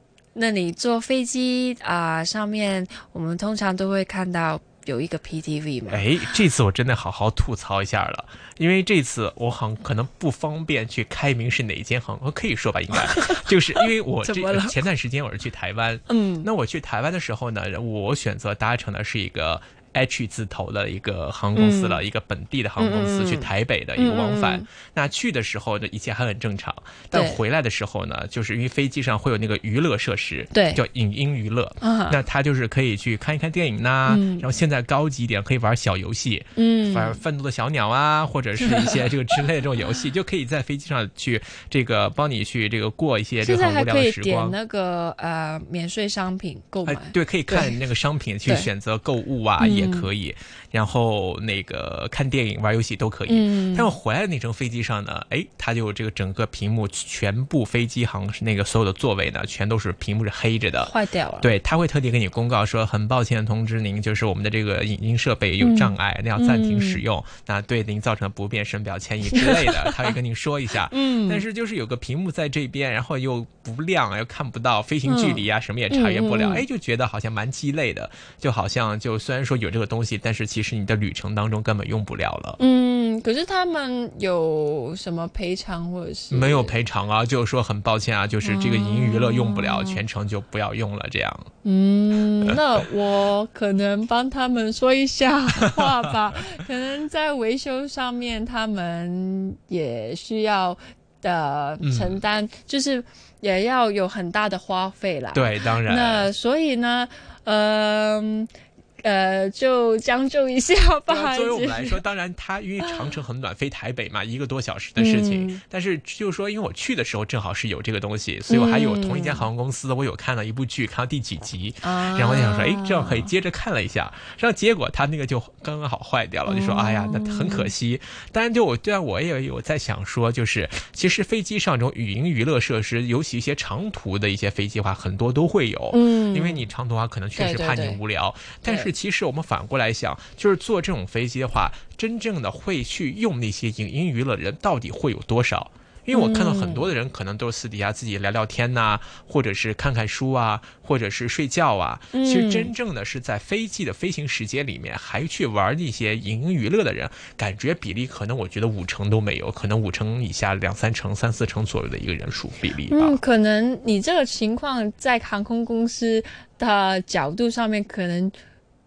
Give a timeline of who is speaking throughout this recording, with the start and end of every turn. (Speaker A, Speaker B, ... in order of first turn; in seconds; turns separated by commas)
Speaker A: 0.3-6.1, Speaker B: 5.9-44.6, Speaker A: 13.1-14.8, Speaker A: 16.1-16.5, Speaker A: 21.6-22.0, Speaker A: 22.8-24.7, Speaker A: 27.1-27.4, Speaker A: 30.5-30.8, Speaker A: 31.8-32.2, Speaker A: 34.1-34.5, Speaker A: 36.6-37.2, Speaker A: 38.6-39.0, Speaker A: 43.4-47.8, Speaker B: 46.9-82.6, Speaker A: 49.6-50.1, Speaker A: 53.3-53.9, Speaker A: 60.8-61.5, Speaker A: 65.6-67.0, Speaker A: 69.3-70.1, Speaker A: 70.9-71.4, Speaker A: 75.0-76.7, Speaker A: 82.6-86.8, Speaker B: 86.3-91.5, Speaker A: 88.4-90.0, Speaker A: 91.6-108.5, Speaker B: 101.8-102.2, Speaker B: 105.3-106.3, Speaker A: 109.0-112.0, Speaker B: 111.1-163.2, Speaker A: 115.0-115.6, Speaker A: 118.5-119.5, Speaker A: 121.8-123.3, Speaker A: 126.5-127.7, Speaker A: 135.9-136.7, Speaker A: 137.3-138.0, Speaker A: 146.1-146.9, Speaker A: 152.1-152.7, Speaker A: 162.9-168.4